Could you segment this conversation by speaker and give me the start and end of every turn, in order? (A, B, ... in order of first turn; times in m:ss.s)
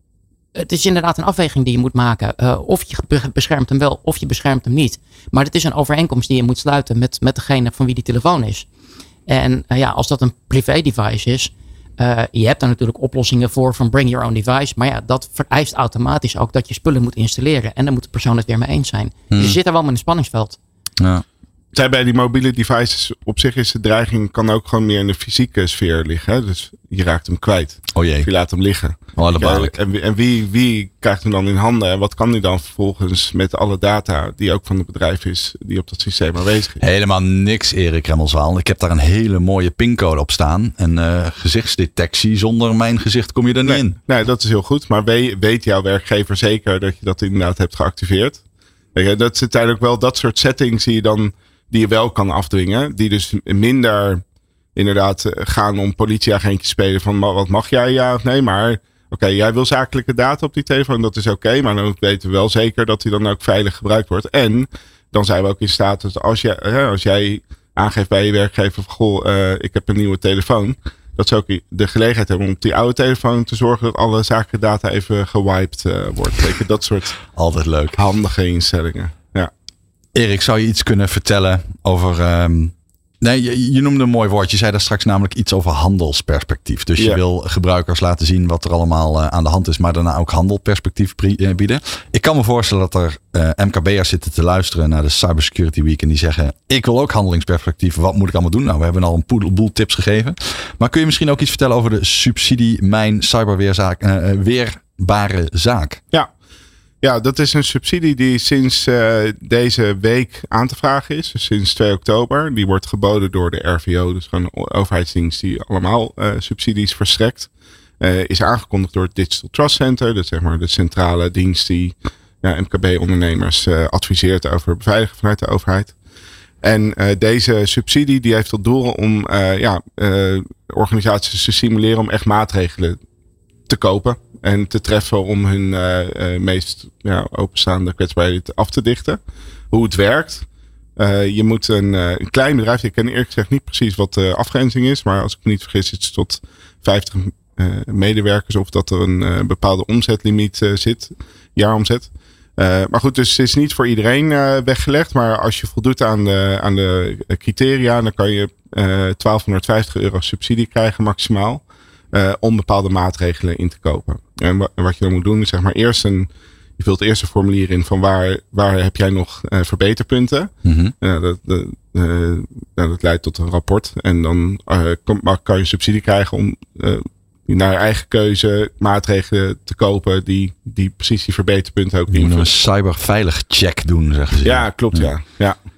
0:00.5-0:08.7 A
0:09.3-0:20.6 A
0:19.3-0:19.6 B
0:21.0-0:21.2 B
0:21.7-0:36.8 C
0:27.9-0:28.3 B
0:29.2-0:29.7 B
0:36.8-0:44.0 B
0:43.6-0:48.4 C
0:48.9-0:54.2 C
0:54.7-1:17.2 C
1:17.3-1:18.0 B
1:18.0-1:19.5 C
1:20.1-1:46.0 B
1:47.0-1:57.5 C
1:58.0-2:05.9 C
2:06.6-2:13.0 C
2:13.7-2:19.2 C
2:19.7-2:20.4 C
2:21.0-3:02.5 C
2:50.6-2:50.9 B
3:02.1-3:05.1 B
3:04.4-3:05.6 C